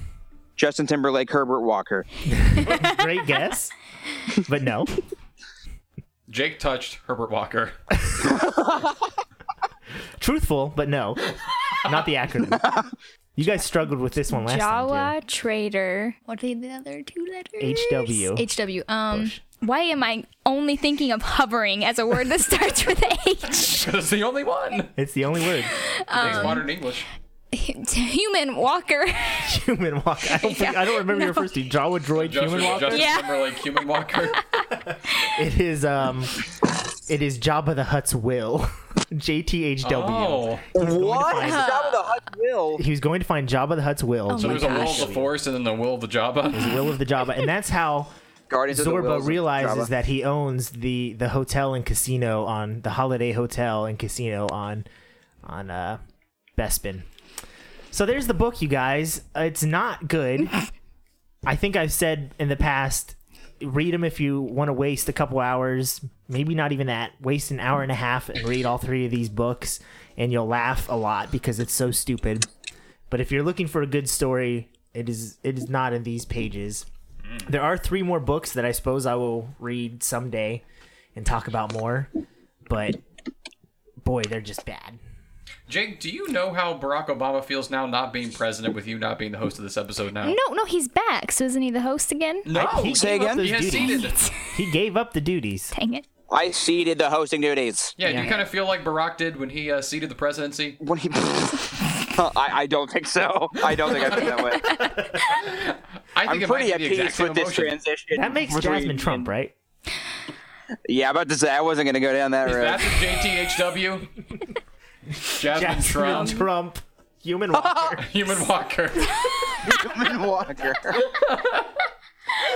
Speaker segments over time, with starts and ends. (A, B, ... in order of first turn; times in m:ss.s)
0:00.6-0:02.1 A
0:02.3-0:03.7 B
0:04.4-0:05.0 B
0:06.3-0:07.8 C
0:08.3-0:09.0 A
0:10.2-0:11.3 B
0:11.8-0:12.8 B
0:13.4-0:15.1 B
0:14.3-0:23.9 D
0:17.6-0:18.5 B
0:19.1-0:19.4 B
0:23.6-0:24.9 C
0:25.0-0:26.6 B
0:25.8-0:26.7 D
0:26.1-0:27.1 C
0:27.5-0:29.5 D
0:29.4-0:33.1 B
0:30.3-0:31.5 D
0:32.2-0:34.4 C
0:32.9-0:33.6 D
0:35.3-0:36.4 B
0:37.1-0:41.7 B
0:39.8-0:40.6 C
0:40.7-0:42.8 A
0:41.4-0:42.1 D
0:42.8-0:45.3 B
0:44.3-0:45.1 D
0:44.4-0:46.8 C
0:46.5-0:48.1 B
0:48.5-0:49.9 A
0:48.7-0:54.8 B
0:55.4-0:56.0 B
0:56.6-0:57.0 B
0:57.9-1:00.6 B
1:01.5-1:12.5 B
1:13.1-1:16.9 B
1:17.5-1:20.6 B
1:21.2-1:22.1 B
1:22.7-1:23.0 B
1:24.0-1:25.0 B
1:25.7-1:30.4 C
1:30.2-1:32.5 D
1:32.5-1:34.2 C
1:32.5-1:35.7 B
1:32.9-1:33.5 A
1:33.7-1:34.5 D
1:35.7-1:36.1 D
1:36.3-1:38.2 A
1:38.0-1:40.8 C
1:38.0-1:38.4 B
1:40.8-1:44.8 A
1:44.1-1:45.5 D
1:45.5-1:47.7 C
1:46.3-1:49.3 A
1:48.1-1:49.5 B
1:50.9-1:53.0 A
1:52.4-1:54.1 C
1:55.2-1:58.2 B
1:55.3-1:56.5 C
1:56.0-1:56.5 D
1:57.8-1:59.7 C
1:59.6-2:01.0 A
2:00.9-2:01.7 C